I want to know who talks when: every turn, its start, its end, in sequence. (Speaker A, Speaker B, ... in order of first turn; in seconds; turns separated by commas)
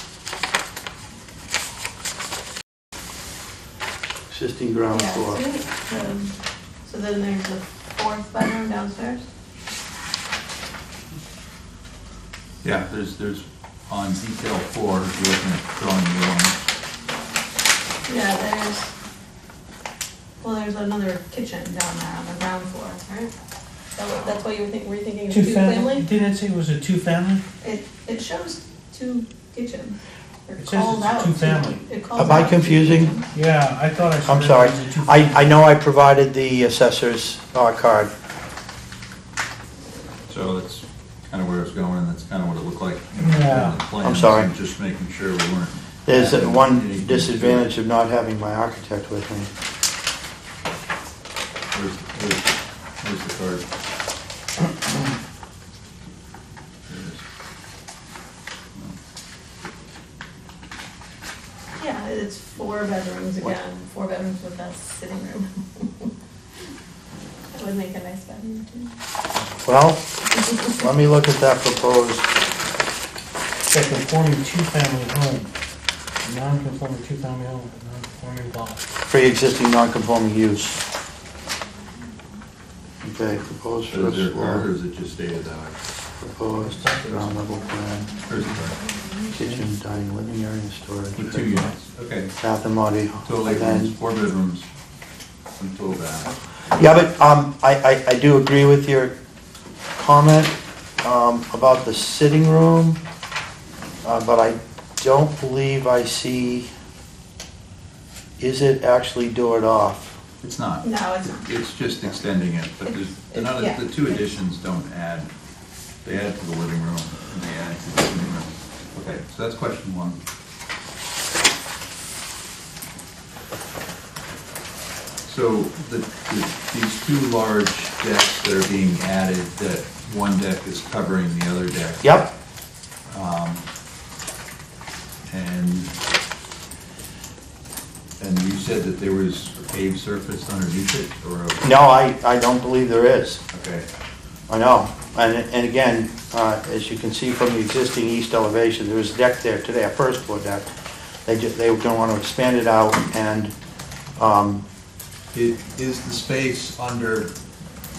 Speaker A: 4.3-5.4, Speaker B: 4.9-6.3, Speaker B: 6.8-9.2, Speaker C: 12.6-16.6, Speaker B: 18.1-18.9, Speaker B: 20.4-23.3, Speaker B: 24.0-26.1, Speaker D: 25.3-27.4, Speaker B: 27.6-33.3, Speaker D: 30.6-31.8, Speaker A: 32.2-33.1, Speaker D: 33.3-35.5, Speaker A: 34.2-38.1, Speaker C: 40.3-47.7, Speaker D: 43.2-43.8, Speaker A: 44.0-44.5, Speaker A: 46.1-49.5, Speaker C: 51.7-53.6, Speaker C: 56.9-57.2, Speaker B: 61.8-66.1, Speaker B: 67.5-68.9, Speaker A: 69.6-70.0, Speaker A: 70.7-72.3, Speaker D: 73.7-75.5, Speaker D: 76.2-78.8, Speaker A: 79.1-80.8, Speaker A: 83.0-84.7, Speaker C: 83.9-85.8, Speaker A: 86.2-88.1, Speaker D: 86.6-87.4, Speaker C: 88.3-88.8, Speaker D: 89.3-89.6, Speaker A: 89.3-91.7, Speaker C: 91.2-92.3, Speaker A: 92.4-93.9, Speaker C: 93.3-94.7, Speaker C: 95.6-96.3, Speaker A: 96.8-99.1, Speaker A: 100.0-103.0, Speaker A: 104.0-106.7, Speaker A: 108.4-110.2, Speaker C: 110.4-110.8, Speaker B: 110.8-111.5, Speaker C: 111.5-115.3, Speaker B: 112.9-114.3, Speaker C: 116.0-120.2, Speaker C: 125.2-132.2, Speaker A: 132.0-132.3, Speaker C: 133.1-133.6, Speaker C: 135.3-135.9, Speaker C: 138.2-141.6, Speaker A: 141.6-143.4, Speaker C: 143.5-143.8, Speaker A: 144.5-150.7, Speaker A: 151.3-153.5, Speaker A: 154.2-154.7, Speaker C: 155.3-157.3